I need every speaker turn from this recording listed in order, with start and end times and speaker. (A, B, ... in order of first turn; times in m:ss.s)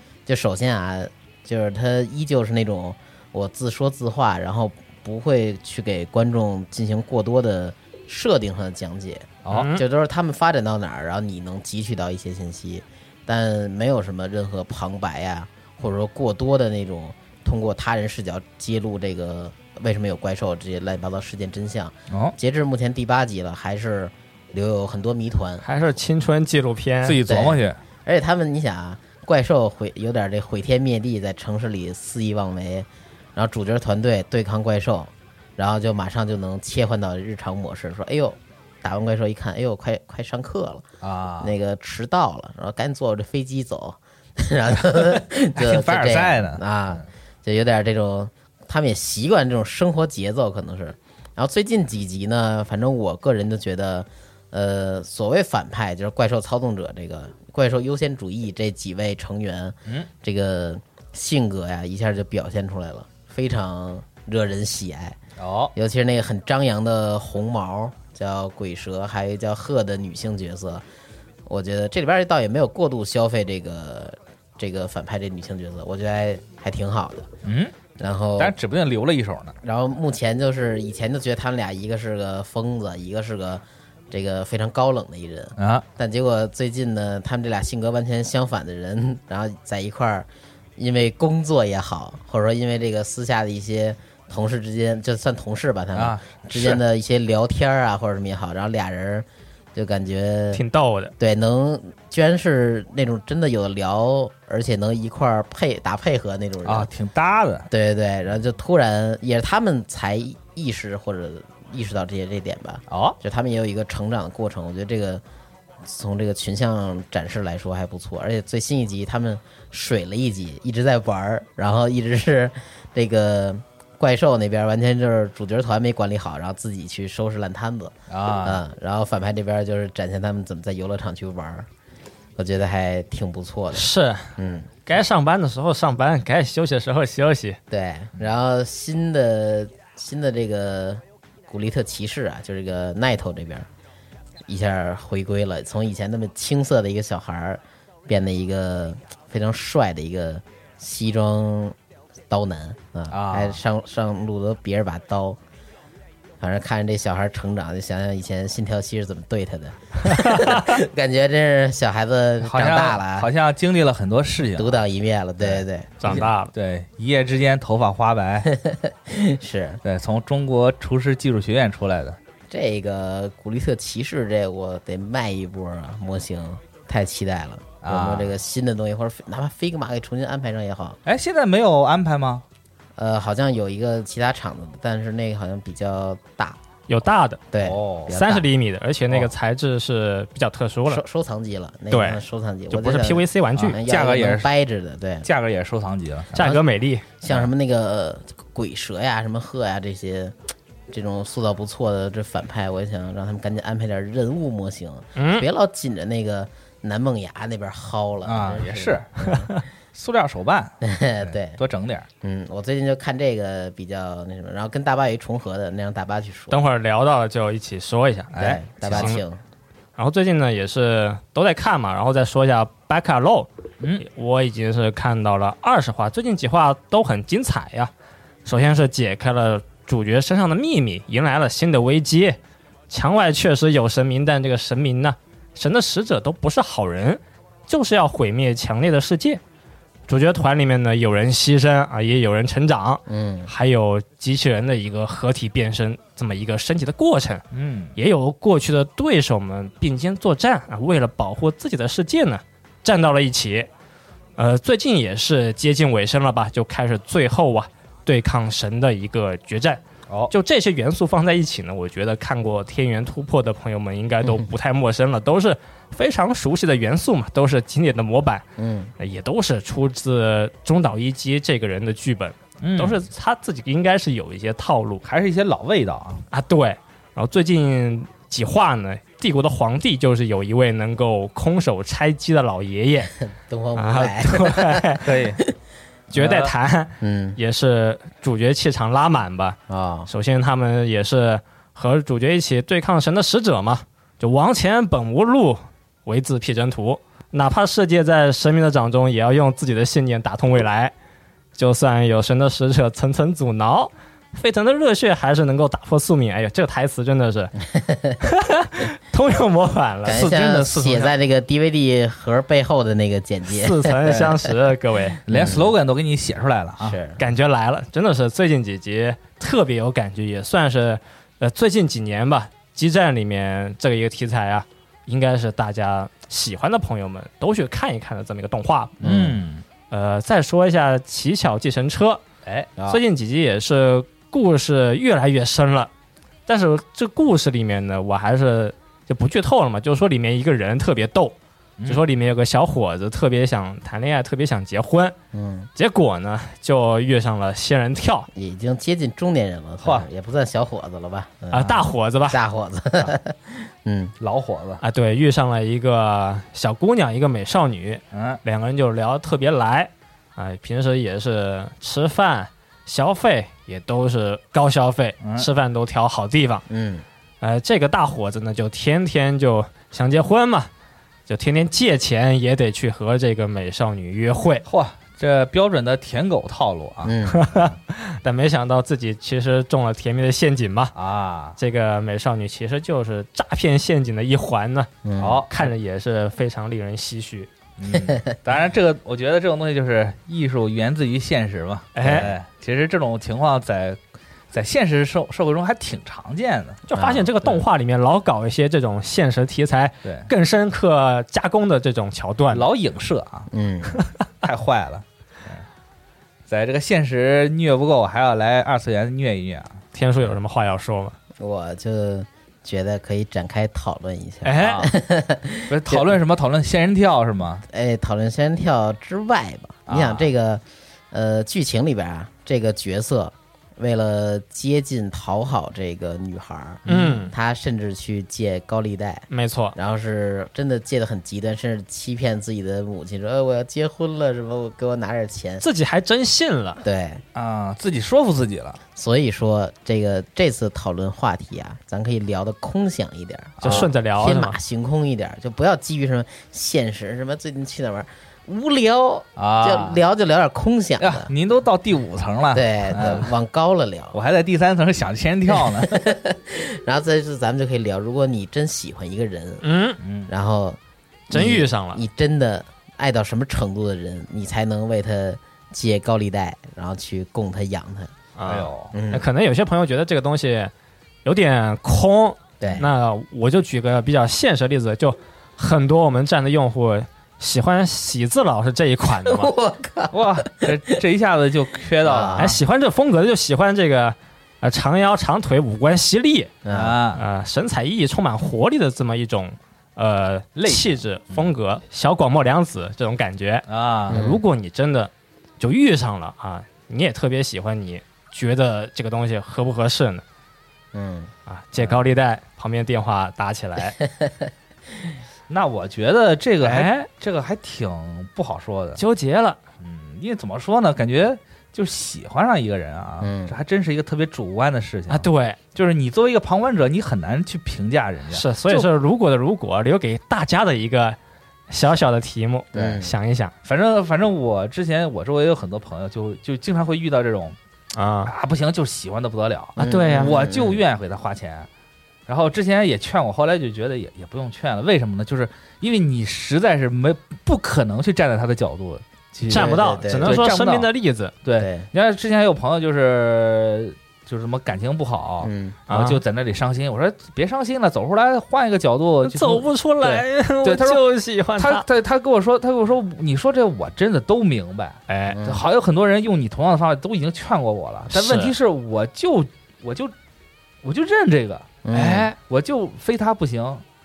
0:00.3-0:25.6 A
0:09.4-0:09.7 B
0:09.5-0:09.8 C
0:22.1-0:22.4 B
0:25.6-0:27.2 C
0:27.0-0:27.8 B
0:27.3-0:40.8 A
0:41.0-0:41.5 B
0:41.4-1:05.2 A
0:45.1-0:47.0 B
1:05.4-1:05.7 B
1:05.8-1:10.8 A
1:11.5-1:17.3 A
1:17.4-1:17.8 B
1:18.0-1:18.6 A
1:18.4-1:19.6 B
1:19.6-1:40.6 A
1:25.6-1:25.8 B
1:36.0-1:36.8 B
1:40.5-1:41.1 C
1:41.2-1:46.9 A
1:46.6-1:47.7 B
1:47.7-1:55.2 A
1:52.9-1:53.2 B
1:55.8-2:11.7 A
2:08.1-2:08.6 B
2:12.4-2:14.7 A
2:13.7-2:14.3 C
2:14.9-2:17.6 C
2:17.7-2:23.7 A
2:24.5-2:31.8 A
2:32.3-2:35.4 A
2:33.1-2:33.6 B
2:36.4-2:43.3 A
2:42.4-2:44.8 B
2:44.6-2:46.0 A
2:45.4-2:48.5 B
2:46.0-2:46.5 C
2:48.6-2:49.8 A
2:49.8-2:52.2 B
2:52.5-3:01.0 A
2:57.8-2:58.3 B
3:01.1-3:02.4 B
3:03.0-3:06.6 A
3:06.9-3:07.4 C
3:07.5-3:08.4 A
3:07.6-3:08.1 B
3:08.1-3:11.0 C
3:10.9-3:15.3 A
3:11.9-3:13.8 C
3:13.6-3:14.5 B
3:15.2-3:16.6 B
3:16.4-3:17.0 C
3:17.2-3:20.4 A
3:20.9-3:29.5 A
3:25.2-3:25.4 C
3:28.3-3:29.3 B
3:29.9-3:32.1 B
3:30.8-3:31.6 A
3:32.2-3:36.6 A
3:36.5-3:38.4 C
3:38.3-3:39.2 B
3:38.4-3:39.4 A
3:38.9-3:39.2 C
3:40.0-3:43.5 C
3:44.0-3:47.9 C
3:48.4-3:52.4 C
3:52.9-3:59.4 C
4:00.1-4:07.4 C
4:03.1-4:03.5 A
4:07.5-4:08.0 B
4:08.0-4:13.7 C
4:14.4-4:28.4 C
4:28.6-4:28.9 A
4:29.0-4:35.0 C
4:32.6-4:33.0 B
4:35.0-4:36.2 B
4:36.3-4:43.1 C
4:43.3-4:44.9 A
4:43.8-4:45.0 C
4:45.0-4:45.4 B
4:46.1-4:49.6 C
4:46.1-4:46.5 B
4:47.0-4:47.4 A
4:49.7-4:50.1 A
4:50.1-5:00.9 C
5:01.6-5:07.5 C
5:07.7-5:08.2 A
5:08.2-5:11.1 C
5:10.0-5:14.2 A
5:10.1-5:10.4 B
5:13.5-5:15.2 C
5:14.1-5:14.3 B
5:15.3-5:17.0 B
5:15.3-5:15.7 A
5:16.8-5:17.2 A
5:17.2-5:29.0 C
5:29.0-5:29.4 A
5:29.0-5:29.6 B
5:29.9-5:32.2 C
5:32.4-5:32.7 B
5:32.8-5:33.0 A
5:32.9-5:35.9 C
5:36.5-5:41.4 C
5:41.9-5:45.1 C
5:45.3-5:45.7 A
5:45.8-5:48.3 C
5:48.3-5:51.7 A
5:51.5-5:52.4 C
5:51.6-5:51.8 B
5:52.3-5:54.1 A
5:54.2-5:54.8 B
5:54.8-6:06.7 C
5:58.1-5:58.4 B
6:05.2-6:05.5 B
6:06.7-6:07.0 A
6:07.4-6:10.7 C
6:11.3-6:14.6 C
6:14.7-6:17.7 B
6:17.0-6:17.4 A
6:17.3-6:20.9 C
6:21.0-6:21.6 B
6:21.6-6:24.9 C
6:25.0-6:25.4 A
6:25.2-6:25.7 B
6:25.5-6:27.5 C
6:27.8-6:34.0 B
6:32.0-6:32.3 C
6:32.0-6:32.3 A
6:34.5-6:36.9 B
6:36.9-6:42.6 C
6:37.0-6:37.3 A
6:40.0-6:40.3 B
6:42.5-6:43.5 B
6:43.5-6:44.0 A
6:44.4-6:45.6 B
6:46.5-6:49.8 B
6:49.9-6:51.2 C
6:51.4-6:56.1 A
6:54.4-6:54.9 C
6:54.6-6:54.9 B
6:55.7-6:57.6 B
6:57.7-7:15.6 A
6:59.9-7:00.3 B
7:06.9-7:07.2 B
7:06.9-7:07.3 C
7:09.3-7:09.8 C
7:15.6-7:16.8 C
7:16.8-7:17.2 A
7:17.4-7:18.8 B
7:19.0-7:31.3 A
7:23.6-7:23.9 B
7:23.6-7:24.6 C
7:29.4-7:30.0 B
7:31.0-7:33.3 B
7:32.5-7:34.2 A
7:34.1-7:36.0 B
7:35.5-7:39.6 A
7:39.6-7:40.0 C
7:40.0-7:40.3 B
7:40.3-7:40.8 A
7:41.3-7:42.0 C
7:41.3-7:48.1 A
7:48.4-7:50.7 C
7:48.4-7:48.9 B
7:48.9-7:49.3 A
7:51.2-7:59.5 C
7:52.6-7:52.9 A
7:59.2-8:01.0 A
8:00.1-8:02.6 B
8:02.0-8:02.5 A
8:02.4-8:06.6 C
8:06.6-8:07.0 A
8:06.7-8:07.2 B
8:07.2-8:20.2 C
8:10.6-8:11.5 B
8:13.7-8:14.2 B
8:14.1-8:14.4 A
8:20.9-8:21.3 A
8:21.5-8:24.0 C
8:21.8-8:22.1 B
8:25.5-8:29.0 B
8:26.6-8:27.1 C
8:29.0-8:29.6 C
8:29.8-8:38.9 B
8:33.2-8:33.6 A
8:35.1-8:35.6 C
8:38.3-8:41.2 C
8:41.7-8:43.5 C
8:42.7-8:43.1 A
8:43.6-8:47.6 B
8:47.9-8:48.3 C
8:48.3-8:51.7 B
8:49.8-8:50.8 A
8:49.8-8:50.3 C
8:52.3-9:00.9 B
8:59.5-9:01.3 C
8:59.5-9:00.4 A
9:01.4-9:11.0 B
9:01.6-9:01.9 A
9:05.4-9:05.8 A
9:05.9-9:06.2 C
9:09.2-9:11.8 C
9:11.6-9:20.1 B
9:15.1-9:15.4 C
9:15.3-9:15.6 A
9:18.1-9:18.5 C
9:20.8-9:23.8 B
9:21.8-9:22.3 A
9:21.9-9:22.4 C